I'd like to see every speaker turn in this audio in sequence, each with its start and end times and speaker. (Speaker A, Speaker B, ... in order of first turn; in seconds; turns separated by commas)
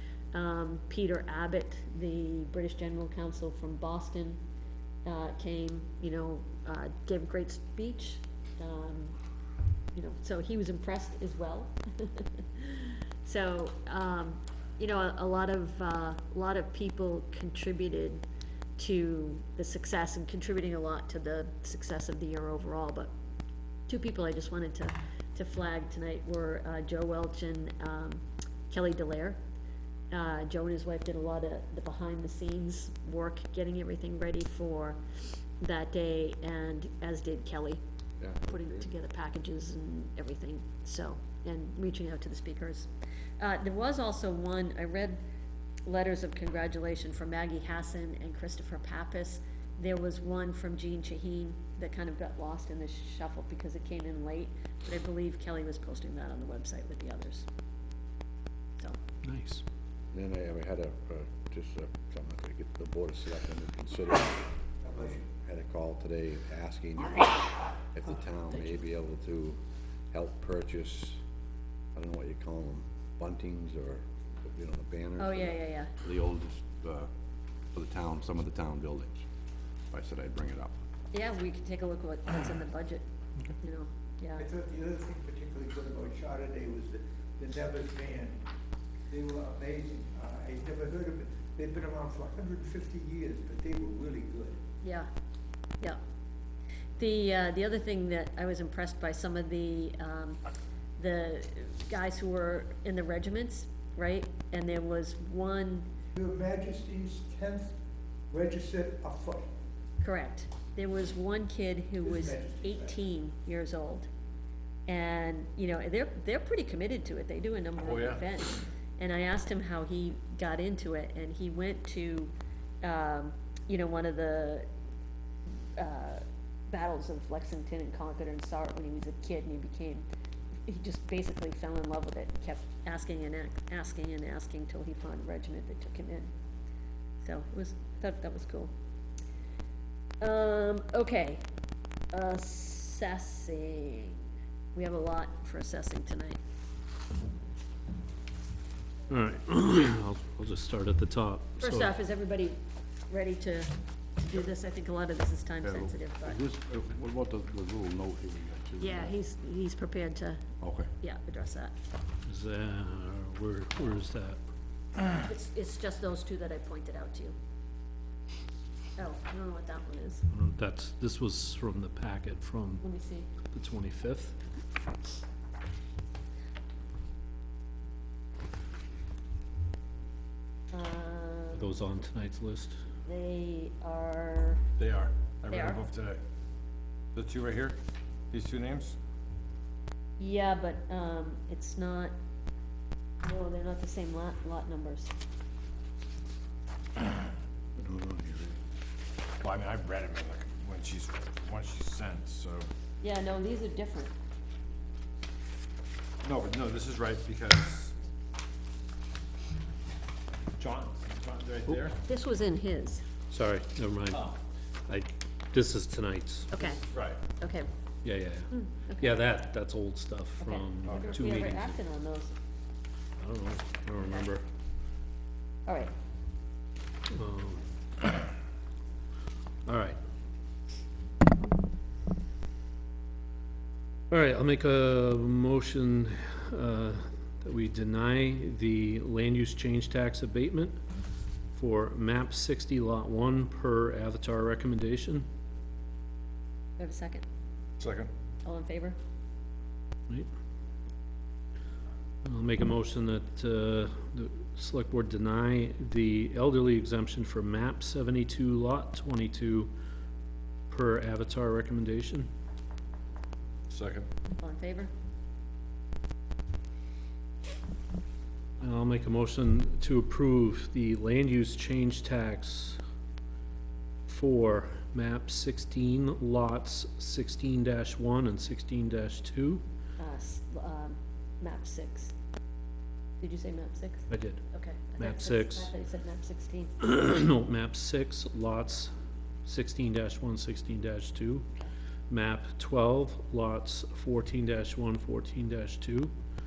Speaker A: 0.3-4.4, Speaker A: 5.0-9.1, Speaker A: 9.9-18.2, Speaker A: 18.8-23.1, Speaker A: 23.9-29.4, Speaker A: 30.1-37.8, Speaker B: 38.2-38.7, Speaker A: 38.4-45.2, Speaker A: 45.9-57.5, Speaker C: 59.2-59.6, Speaker B: 60.1-64.5, Speaker D: 64.8-65.2, Speaker B: 65.2-69.6, Speaker B: 70.1-71.2, Speaker B: 71.9-77.1, Speaker A: 75.2-75.9, Speaker B: 77.7-79.2, Speaker B: 79.9-80.8, Speaker A: 81.1-83.0, Speaker A: 83.6-84.4, Speaker D: 84.4-88.4, Speaker D: 89.1-94.6, Speaker A: 94.8-95.1, Speaker A: 97.0-100.4, Speaker A: 101.0-105.9, Speaker D: 106.2-107.7, Speaker D: 108.3-109.5, Speaker A: 110.0-114.1, Speaker D: 112.0-113.0, Speaker A: 114.9-124.7, Speaker E: 117.8-118.2, Speaker A: 125.8-130.0, Speaker A: 130.7-136.3, Speaker A: 137.2-138.7, Speaker A: 140.2-141.4, Speaker A: 142.1-146.4, Speaker C: 149.1-151.9, Speaker A: 151.6-152.6, Speaker A: 153.1-156.4, Speaker B: 155.6-159.1, Speaker A: 158.8-160.4, Speaker B: 160.6-160.9, Speaker A: 161.0-161.7, Speaker C: 162.2-164.4, Speaker A: 165.2-167.3, Speaker A: 169.0-170.2, Speaker C: 170.3-172.8, Speaker A: 172.8-173.3, Speaker C: 173.5-174.3, Speaker A: 180.7-181.7, Speaker C: 181.5-182.8, Speaker A: 183.0-184.6, Speaker E: 184.8-186.2, Speaker A: 185.5-185.8, Speaker E: 187.1-187.8, Speaker E: 188.3-189.0, Speaker A: 190.2-192.1, Speaker A: 193.2-195.1, Speaker B: 197.8-198.6, Speaker E: 199.4-202.7, Speaker A: 203.0-204.1, Speaker E: 206.2-207.9, Speaker E: 210.6-212.0, Speaker A: 212.0-213.0, Speaker C: 213.3-214.3, Speaker C: 214.9-216.6, Speaker A: 216.5-216.8, Speaker E: 216.9-217.2, Speaker A: 217.3-217.7, Speaker C: 218.0-221.7, Speaker A: 218.5-219.2, Speaker A: 220.4-222.3, Speaker E: 220.8-221.4, Speaker C: 223.2-224.4, Speaker A: 225.7-225.9, Speaker C: 227.1-228.1, Speaker C: 229.7-230.0, Speaker C: 234.1-240.7, Speaker C: 241.5-245.2, Speaker A: 246.8-247.2, Speaker E: 247.8-248.1, Speaker A: 248.4-249.0, Speaker C: 252.2-259.7, Speaker C: 260.7-262.3, Speaker E: 263.7-264.0, Speaker A: 264.4-264.9, Speaker C: 268.6-272.8, Speaker C: 274.1-279.6, Speaker A: 280.0-282.1, Speaker A: 283.2-286.7, Speaker C: 284.1-284.4, Speaker C: 285.0-285.7, Speaker C: 286.8-288.9, Speaker C: 289.4-291.5, Speaker C: 292.1-296.1